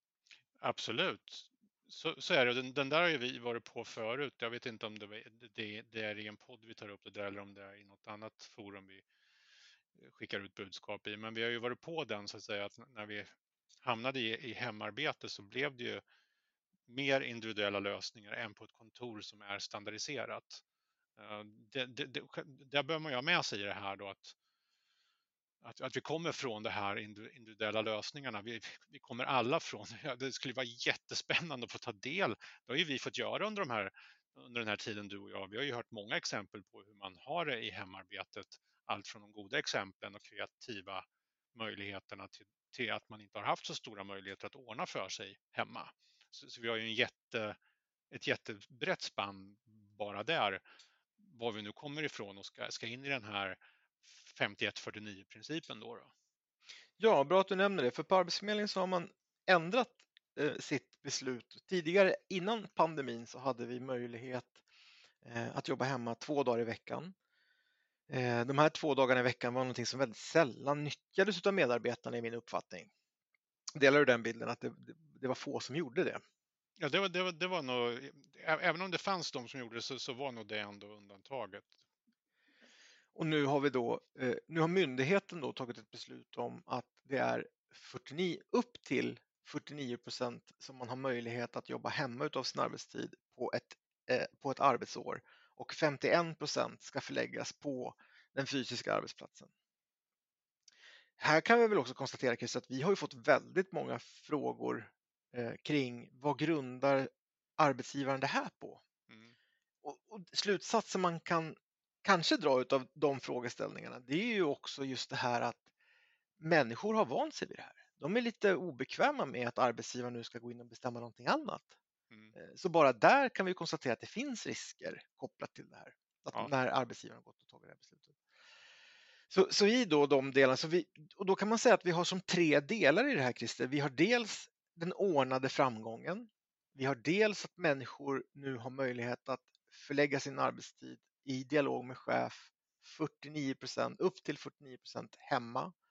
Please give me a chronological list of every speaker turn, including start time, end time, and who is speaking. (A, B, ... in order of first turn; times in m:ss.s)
0:00.6-0:09.0 A
0:09.9-0:13.3 A
0:13.8-0:16.0 A
0:16.9-0:20.6 A
0:21.2-0:24.3 A
0:25.6-0:47.6 A
0:48.1-0:50.6 A
0:51.2-0:56.1 A
0:57.0-1:04.6 B
1:05.2-1:07.1 B
1:08.1-1:12.9 B
1:13.8-1:16.2 B
1:16.8-1:21.7 A
1:23.1-1:39.5 B
1:41.2-1:48.8 B
1:49.1-1:49.4 A
1:49.8-1:55.6 B
1:56.4-2:01.7 B
2:02.3-2:08.1 B
2:09.3-2:25.7 B